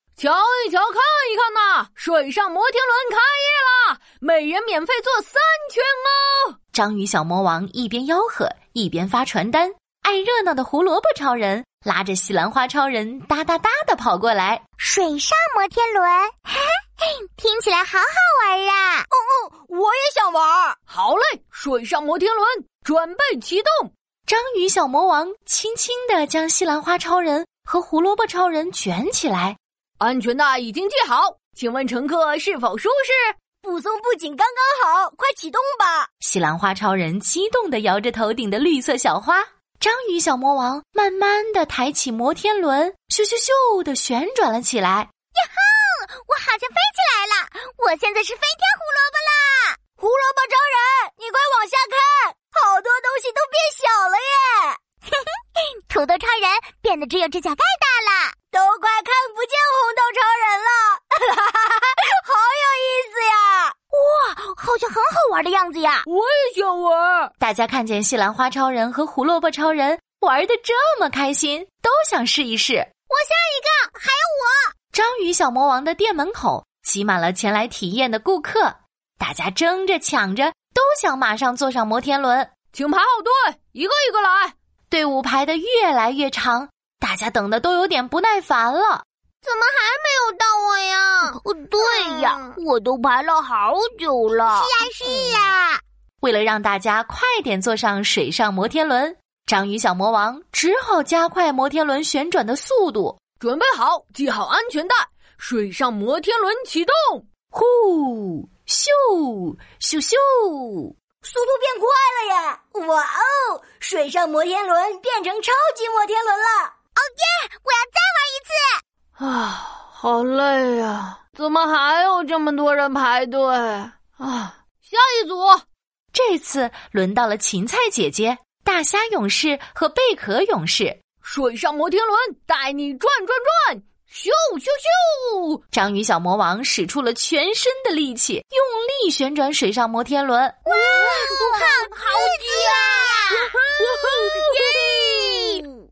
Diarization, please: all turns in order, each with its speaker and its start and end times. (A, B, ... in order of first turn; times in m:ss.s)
0:00.2-0:06.5 A
0:06.7-0:14.6 B
0:14.8-0:19.1 C
0:19.1-0:20.8 D
0:20.9-0:23.9 A
0:24.3-0:29.6 B
0:30.0-0:33.3 A
0:33.6-0:36.1 D
0:36.2-0:45.1 B
0:45.4-0:49.8 C
0:50.0-0:54.8 D
0:55.1-0:58.3 C
0:58.5-1:03.7 D
1:03.9-1:06.0 C
1:06.0-1:07.3 A
1:07.4-1:12.9 B
1:14.9-1:22.5 B
1:22.7-1:24.5 A
1:24.9-1:29.0 B
1:29.4-1:31.4 A
1:30.3-1:30.6 D
1:31.2-1:35.5 C
1:34.8-1:35.8 D
1:36.2-1:43.2 B
1:43.4-1:47.2 A
1:47.5-1:50.9 B
1:51.2-1:56.7 D
1:57.0-1:58.8 C
1:59.2-2:05.6 A
2:06.1-2:11.0 B
2:11.2-2:15.6 A
2:15.7-2:20.6 B
2:20.6-2:25.7 C
2:20.7-2:25.0 A